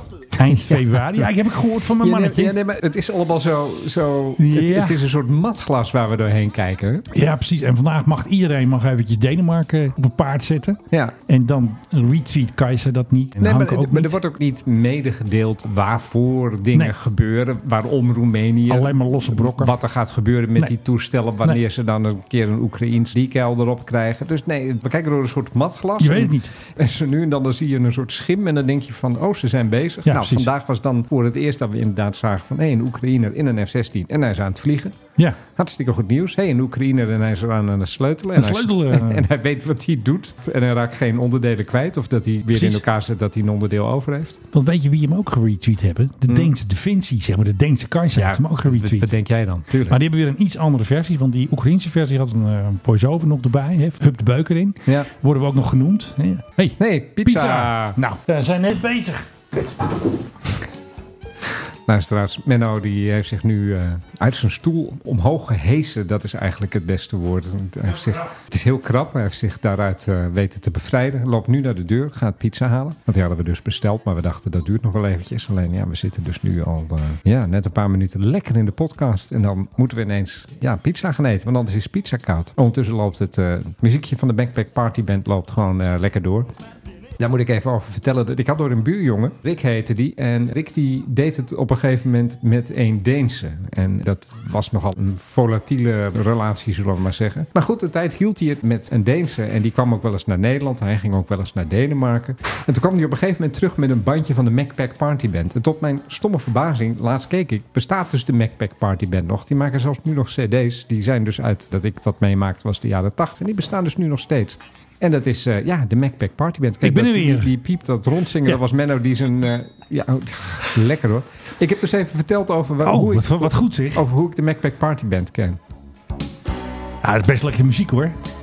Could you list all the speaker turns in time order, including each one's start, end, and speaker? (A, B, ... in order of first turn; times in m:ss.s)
0:00.3-0:02.5 A
0:00.4-0:01.3 B
0:02.0-0:07.0 B
0:04.4-0:05.0 A
0:07.1-0:14.2 A
0:10.9-0:11.2 B
0:13.4-0:44.4 B
0:18.7-0:19.7 A
0:26.0-0:26.5 A
0:30.0-0:30.5 A
0:38.3-0:39.3 A
0:42.5-0:42.8 A
0:44.5-0:49.1 A
0:46.3-0:46.5 B
0:48.1-0:50.0 B
0:49.9-1:00.0 A
0:56.8-0:58.0 B
1:01.8-1:26.5 B
1:27.2-2:05.6 B
1:56.8-1:57.5 A
2:02.8-2:04.0 A
2:07.0-2:08.2 A